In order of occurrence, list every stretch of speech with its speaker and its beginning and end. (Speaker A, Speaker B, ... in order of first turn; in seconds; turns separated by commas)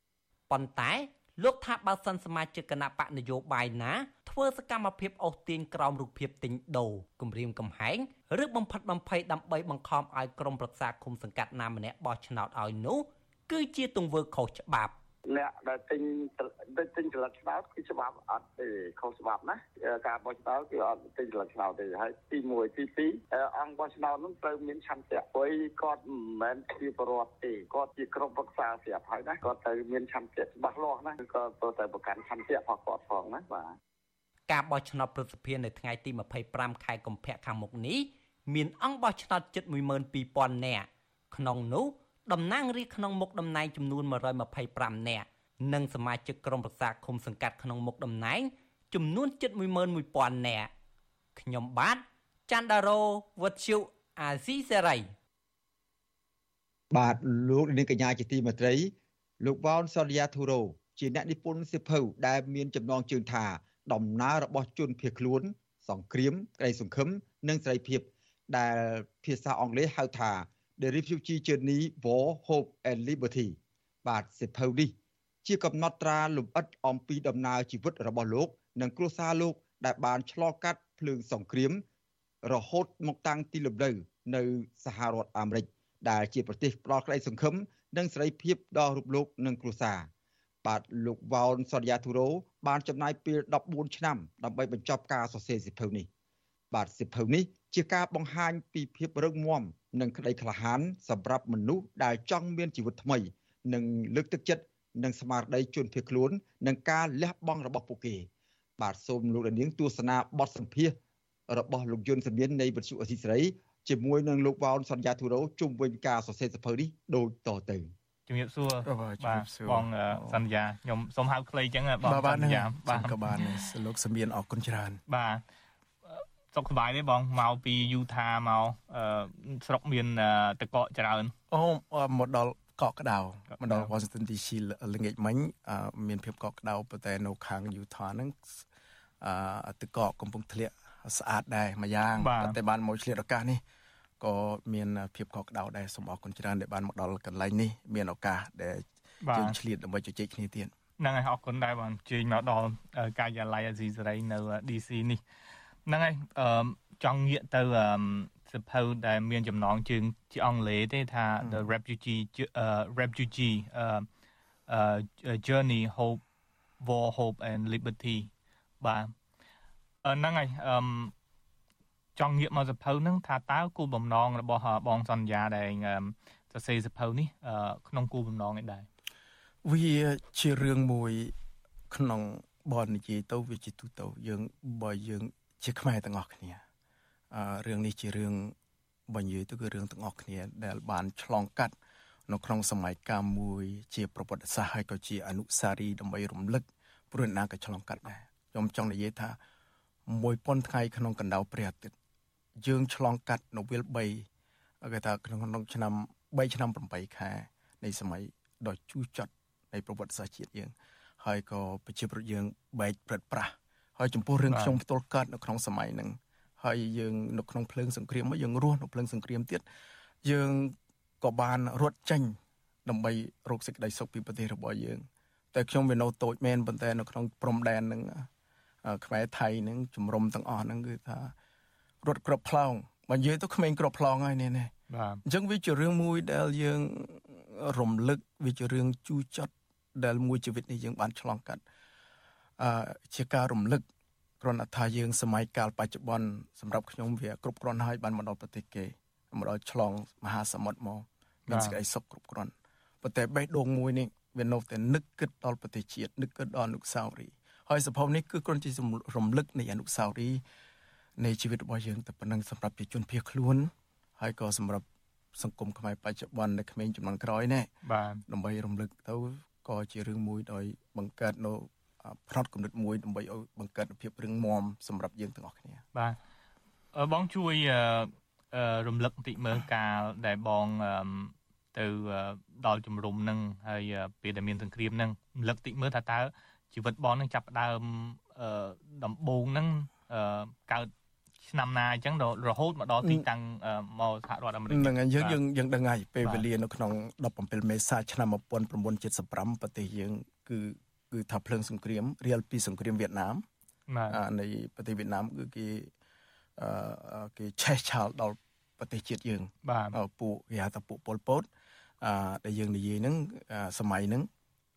Speaker A: 0.5-15.0, Speaker B: 15.3-33.8, Speaker A: 34.5-50.7, Speaker A: 51.4-55.1, Speaker C: 56.9-81.8, Speaker C: 82.4-90.1, Speaker C: 90.6-96.1, Speaker C: 96.7-111.0, Speaker C: 111.5-117.9, Speaker D: 118.3-123.7, Speaker E: 118.8-120.5, Speaker E: 122.0-125.0, Speaker D: 125.1-125.4, Speaker D: 126.0-131.3, Speaker E: 131.5-138.6, Speaker D: 133.5-133.9, Speaker E: 139.2-143.6, Speaker D: 142.2-142.6, Speaker E: 144.2-150.7, Speaker D: 149.3-149.6, Speaker D: 151.0-155.2, Speaker D: 155.9-164.1, Speaker E: 161.4-161.7, Speaker D: 164.7-166.2, Speaker D: 166.8-168.3, Speaker D: 168.8-169.1, Speaker D: 170.1-171.1, Speaker D: 172.2-178.9, Speaker E: 179.7-181.3, Speaker E: 181.9-186.6, Speaker E: 187.3-188.5, Speaker E: 189.1-191.7, Speaker E: 192.3-199.4, Speaker E: 200.1-201.9, Speaker E: 202.6-204.3, Speaker E: 204.8-219.7, Speaker D: 214.4-214.8, Speaker E: 220.2-228.3, Speaker E: 228.8-231.3, Speaker E: 232.0-234.7, Speaker D: 234.9-235.2, Speaker E: 235.3-241.6, Speaker E: 242.6-243.8, Speaker E: 244.4-260.4, Speaker D: 251.5-251.8, Speaker E: 261.2-267.7, Speaker D: 267.8-268.2, Speaker E: 268.3-275.8, Speaker D: 275.9-276.2, Speaker D: 276.9-295.4, Speaker E: 293.0-293.3, Speaker E: 294.7-303.4, Speaker D: 303.9-304.2, Speaker E: 304.1-305.9, Speaker E: 306.6-311.5, Speaker D: 309.6-310.0, Speaker E: 312.0-314.3